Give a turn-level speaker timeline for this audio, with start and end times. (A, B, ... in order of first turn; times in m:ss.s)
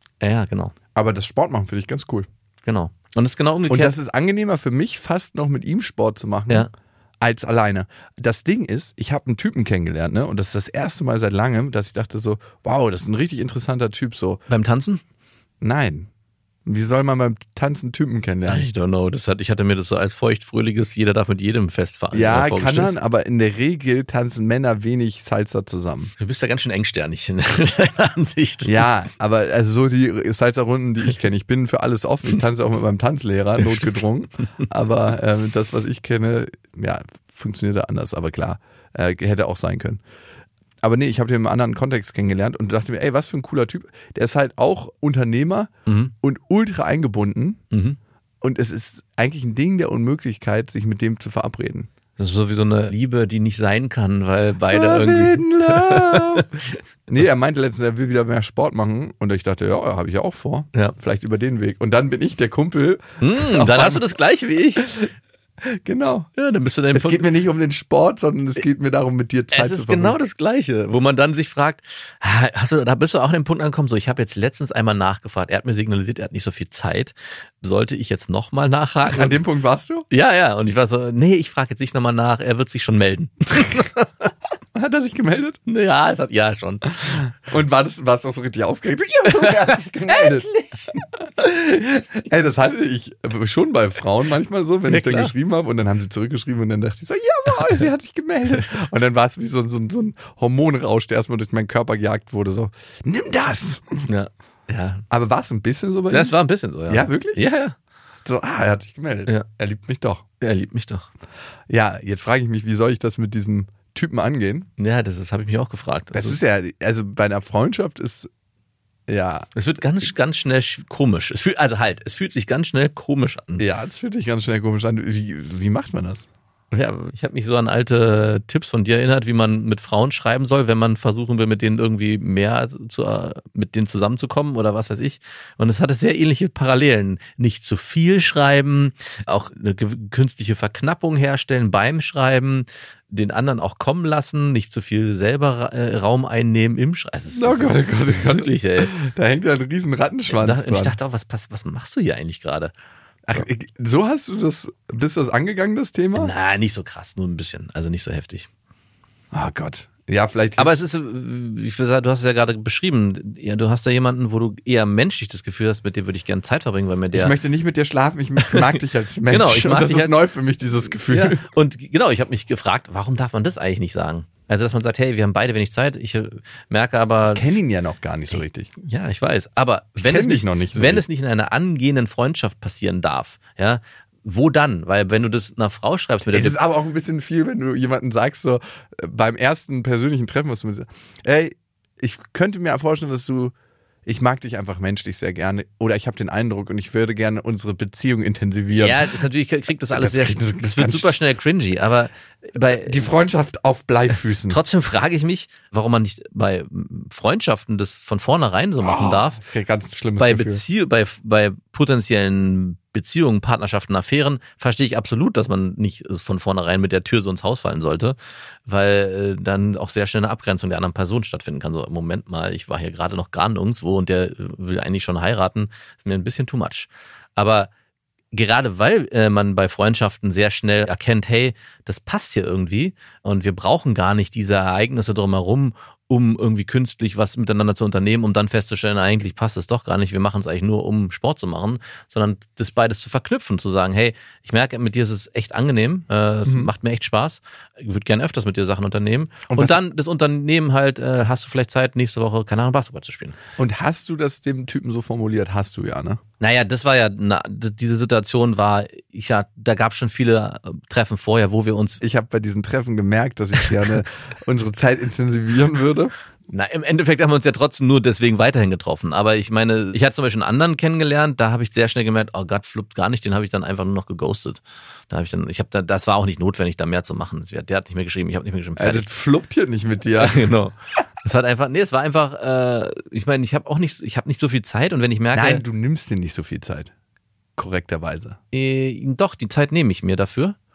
0:00.2-0:00.7 A
0:00.9-0:02.3 B
0:02.6-0:04.0 A
0:03.7-0:06.7 B
0:07.2-0:14.4 B
0:14.5-0:15.0 A
0:15.6-0:16.1 B
0:16.6-0:18.7 B
0:18.4-0:23.0 A
0:22.1-0:26.1 B
0:26.2-0:28.9 A
0:28.6-0:40.0 B
0:40.8-0:45.7 B
0:45.8-0:46.1 A
0:46.2-0:47.6 B
0:47.7-0:48.0 A
0:48.4-0:51.9 B
0:52.2-0:56.8 A
0:54.7-0:56.5 B
0:57.1-1:04.0 B
1:03.2-1:05.0 A
1:05.6-1:06.3 B
1:06.4-1:07.2 A
1:06.9-1:10.2 B
1:09.5-1:19.4 A
1:19.1-1:20.1 B
1:20.1-1:24.3 A
1:24.7-1:25.6 B
1:25.6-1:27.2 A
1:27.1-1:44.0 B
1:29.3-1:31.0 A
1:34.9-1:35.3 A
1:44.1-1:45.0 A
1:45.1-1:46.3 B
1:46.1-1:47.8 A
1:46.9-1:47.4 B
1:48.2-1:50.2 B
1:50.4-1:51.1 A
1:51.7-1:54.7 B
1:54.8-1:56.4 A
1:56.1-1:58.3 B
1:59.1-1:59.5 B
1:59.5-2:03.6 A
2:03.6-2:06.3 B
2:06.7-2:28.9 A
2:27.3-2:31.0 B
2:30.3-2:32.7 A
2:33.3-2:36.3 B
2:36.1-2:38.5 A
2:39.3-2:40.8 B
2:40.6-2:47.3 A
2:47.1-2:51.4 B
2:49.3-2:50.2 A
2:51.1-2:57.4 A
2:57.2-2:58.7 B
2:58.3-3:06.6 A
3:00.0-3:01.0 B
3:06.3-3:13.5 B
3:14.0-3:19.1 B
3:18.7-3:23.0 A
3:19.9-3:21.2 B
3:22.7-3:24.6 B
3:24.5-3:29.4 A
3:28.8-3:30.6 B
3:30.2-3:38.2 A
3:38.7-3:47.7 A
3:48.3-4:13.4 A
4:06.4-4:06.7 B
4:09.5-4:09.8 B
4:13.6-4:16.2 B
4:16.4-4:22.0 A
4:22.0-4:26.1 B
4:26.5-4:39.0 A
4:38.8-4:40.5 B
4:40.2-4:45.6 A
4:45.3-4:46.9 B
4:47.6-4:48.4 B
4:48.5-4:50.6 A